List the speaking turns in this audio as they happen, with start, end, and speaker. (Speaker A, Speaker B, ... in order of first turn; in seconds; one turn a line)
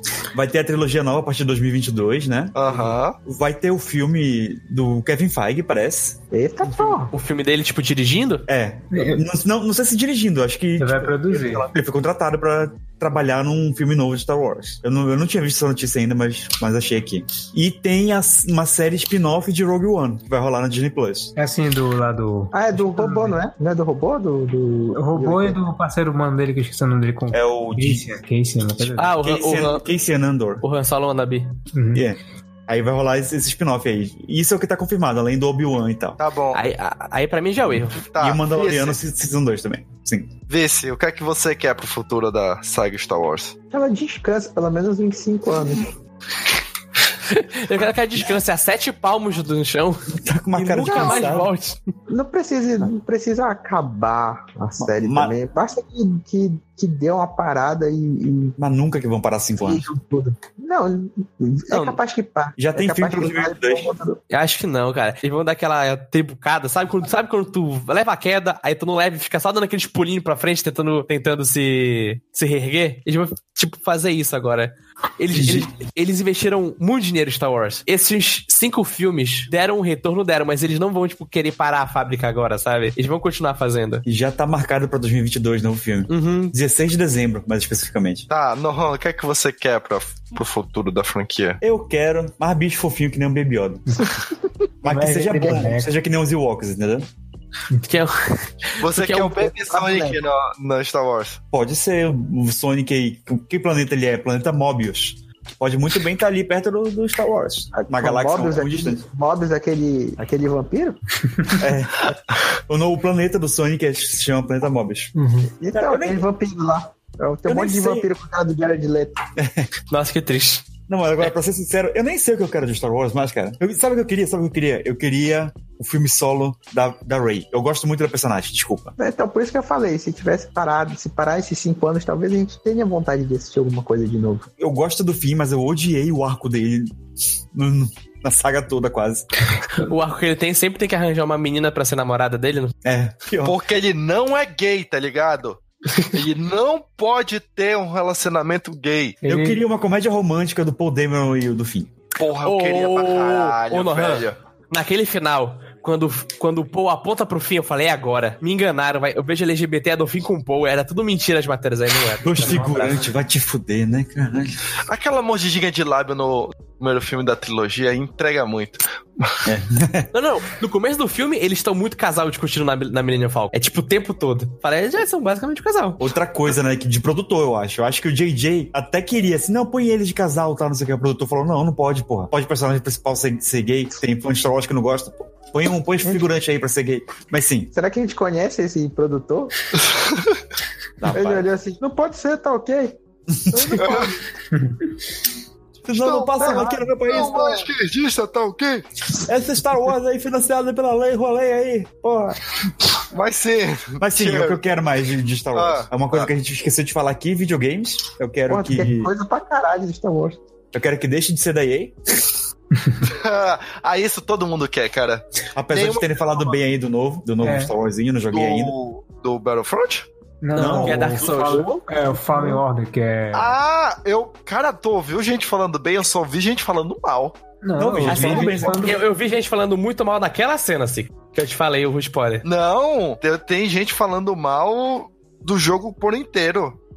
Speaker A: 0.3-2.5
Speaker B: 2.5-3.2
Speaker A: 3.2-6.2
Speaker C: 6.3-7.1
Speaker D: 6.7-8.5
Speaker A: 8.5-21.3
Speaker E: 8.9-9.2
Speaker E: 10.8-11.6
Speaker D: 11.4-11.7
Speaker E: 21.4-23.4
Speaker C: 22.5-25.6
Speaker E: 25.0-29.1
Speaker A: 27.3-28.1
Speaker D: 29.0-29.8
Speaker A: 29.2-30.6
Speaker D: 30.6-31.6
Speaker E: 31.7-32.0
Speaker A: 31.9-36.2
Speaker B: 36.2-36.6
Speaker D: 36.5-38.0
Speaker B: 38.0-39.0
Speaker A: 38.2-40.3
Speaker B: 40.5-43.5
Speaker C: 43.7-45.9
Speaker D: 47.3-51.8
Speaker A: 50.2-51.5
Speaker C: 50.8-51.4
Speaker C: 52.1-58.5
Speaker A: 54.8-55.3
Speaker A: 58.6-59.8
Speaker C: 59.6-64.2
Speaker D: 61.7-62.0
Speaker A: 62.6-63.9
Speaker D: 64.3-84.0
Speaker A: 75.3-75.7
Speaker A: 84.0-88.2
Speaker D: 86.1-86.5
Speaker B: 88.3-91.6
Speaker A: 91.6-94.0
Speaker A: 94.8-97.1
Speaker E: 94.8-95.9
Speaker D: 97.8-99.5
Speaker B: 98.8-101.4
Speaker C: 99.5-100.2
Speaker A: 101.5-109.0
Speaker C: 107.8-111.0
Speaker A: 111.6-115.1
Speaker E: 115.2-115.5
Speaker C: 115.6-119.2
Speaker A: 115.7-116.2
Speaker A: 117.4-118.1
Speaker A: 119.4-119.7
Speaker D: 119.9-120.7
Speaker A: 120.9-128.9
Speaker C: 129.0-134.5
Speaker A: 134.6-136.9
Speaker A: 137.5-139.3
Speaker D: 139.8-142.7
Speaker A: 142.8-143.6
Speaker B: 143.4-145.6
Speaker B: 146.1-149.2
Speaker E: 149.2-149.6
Speaker A: 149.2-151.9
Speaker B: 152.2-154.3
Speaker D: 152.4-163.0
Speaker A: 162.2-164.6
Speaker B: 164.9-169.4
Speaker A: 169.4-170.1
Speaker D: 170.1-176.0
Speaker A: 176.0-187.7
Speaker C: 187.7-189.7
Speaker B: 189.9-190.2
Speaker A: 191.0-191.5
Speaker C: 191.1-193.0
Speaker A: 193.4-193.8
Speaker C: 193.5-194.2
Speaker B: 193.8-194.1
Speaker A: 195.8-197.7
Speaker B: 195.9-198.8
Speaker C: 196.4-197.5
Speaker A: 199.2-202.4
Speaker B: 203.1-204.6
Speaker A: 204.0-209.1
Speaker B: 205.5-206.3
Speaker C: 208.5-210.4
Speaker A: 210.7-211.9
Speaker B: 213.0-216.5
Speaker A: 215.5-218.7
Speaker E: 217.4-217.7
Speaker B: 218.3-220.1
Speaker E: 220.4-223.5
Speaker D: 220.5-221.8
Speaker A: 220.5-221.6
Speaker C: 221.4-222.6
Speaker B: 223.3-227.4
Speaker E: 227.6-229.0
Speaker A: 227.8-229.0
Speaker D: 228.1-232.4
Speaker B: 232.4-236.8